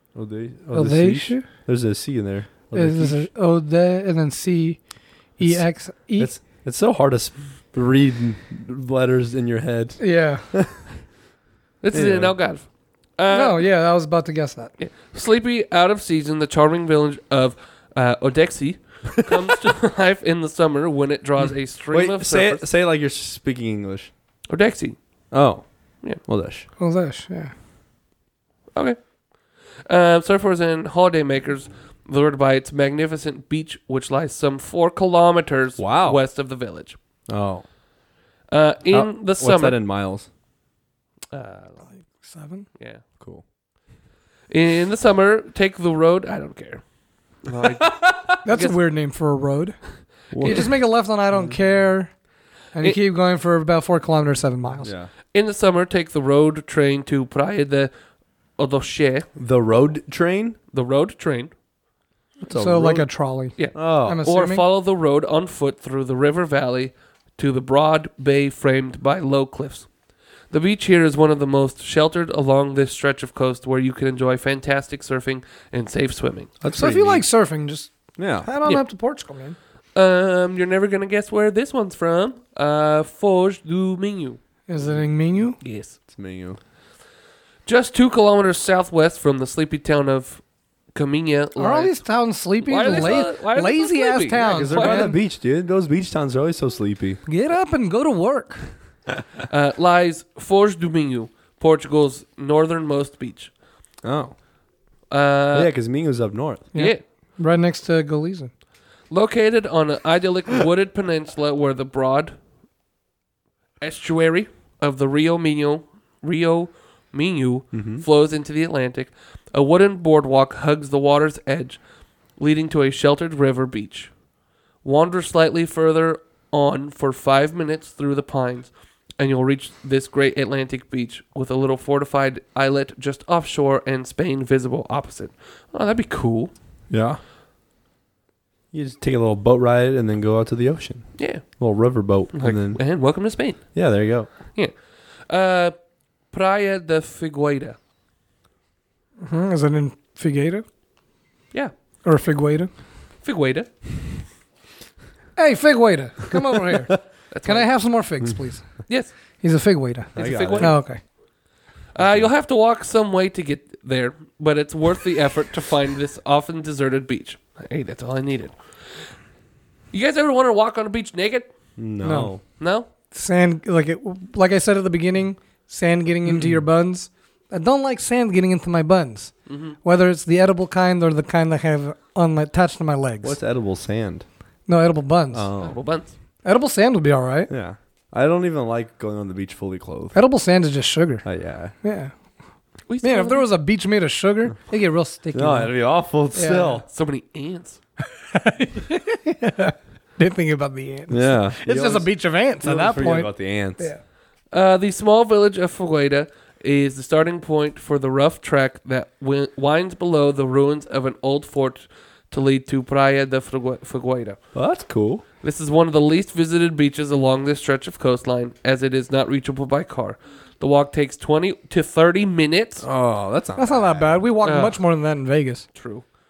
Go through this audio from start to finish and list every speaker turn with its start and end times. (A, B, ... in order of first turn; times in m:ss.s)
0:00.1-0:03.3 A
0:00.7-0:01.5 B
0:02.7-0:04.8 B
0:05.4-0:06.3 B
0:05.4-0:11.0 A
0:10.0-0:10.5 B
0:11.8-0:13.6 C
0:11.9-0:12.4 A
0:13.3-0:14.7 B
0:14.8-0:22.6 C
0:19.2-0:19.5 A
0:21.9-0:24.1 A
0:24.5-0:25.0 C
0:25.3-0:26.6 A
0:26.8-0:27.5 B
0:28.7-0:29.1 C
0:29.8-0:37.0 C
0:35.8-0:36.2 A
0:37.3-0:37.6 A
0:38.5-0:39.8 C
0:38.9-0:40.3 A
0:41.3-0:41.9 C
0:41.9-0:42.7 B
0:42.8-0:43.0 C
0:44.5-0:46.8 C
0:47.4-0:48.8 C
0:48.4-0:49.8 B
0:50.3-0:50.7 A
0:50.4-0:52.1 B
0:51.3-0:51.6 A
0:52.7-0:54.9 B
0:54.8-0:55.1 A
0:55.3-0:57.9 C
0:58.6-0:59.2 C
0:59.4-1:00.6 A
1:00.7-1:01.5 C
1:02.4-1:03.1 A
1:02.5-1:04.6 B
1:03.6-1:09.9 C
1:03.7-1:04.2 A
1:10.5-1:16.5 C
1:16.6-1:17.2 A
1:16.7-1:19.6 B
1:18.2-1:18.5 A
1:19.9-1:24.4 C
1:24.7-1:25.6 B
1:25.6-1:26.0 C
1:26.1-1:26.6 A
1:27.6-1:32.1 C
1:31.6-1:35.2 B
1:32.6-1:35.1 C
1:34.4-1:37.2 A
1:37.2-1:38.7 B
1:39.5-1:43.5 C
1:44.0-1:44.3 A
1:45.1-1:45.7 C
1:45.5-1:46.7 A
1:46.7-1:48.5 B
1:46.7-1:47.0 C
1:49.1-1:52.3 C
1:53.8-2:01.8 C
1:57.7-1:58.0 A
2:02.4-2:04.1 C
2:04.8-2:16.5 C
2:16.9-2:17.2 A
2:18.7-2:22.8 A
2:21.2-2:21.7 C
2:22.3-2:24.7 C
2:23.7-2:24.3 A
2:25.3-2:25.7 C
2:26.3-2:27.8 C
2:29.2-2:30.6 B
2:32.0-2:32.7 B
2:33.2-2:33.7 C
2:35.4-2:41.0 B
2:37.3-2:37.8 C
2:38.9-2:39.1 C
2:40.1-2:40.8 A
2:40.1-2:40.9 C
2:41.9-2:49.0 C
2:42.0-2:42.3 A
2:49.9-2:51.5 C
2:51.8-2:52.4 A
2:52.0-2:52.4 B
2:52.6-2:52.9 C
2:53.1-3:03.4 B
2:56.2-2:56.6 A
2:59.5-2:59.8 C
3:03.2-3:04.2 A
3:04.7-3:05.5 B
3:05.3-3:05.8 A
3:05.6-3:06.1 C
3:06.4-3:07.5 B
3:07.5-3:10.2 A
3:10.1-3:11.2 B
3:11.2-3:11.7 A
3:11.8-3:12.1 B
3:12.9-3:13.5 C
3:13.0-3:15.8 B
3:15.3-3:16.8 A
3:16.3-3:16.8 B
3:16.9-3:17.8 C
3:18.2-3:24.0 B
3:21.1-3:23.9 A
3:24.5-3:34.4 C
3:34.5-3:35.2 A
3:35.4-3:42.9 C
3:42.8-3:44.2 A
3:43.6-3:45.6 B
3:44.4-3:44.8 C
3:45.7-3:46.1 C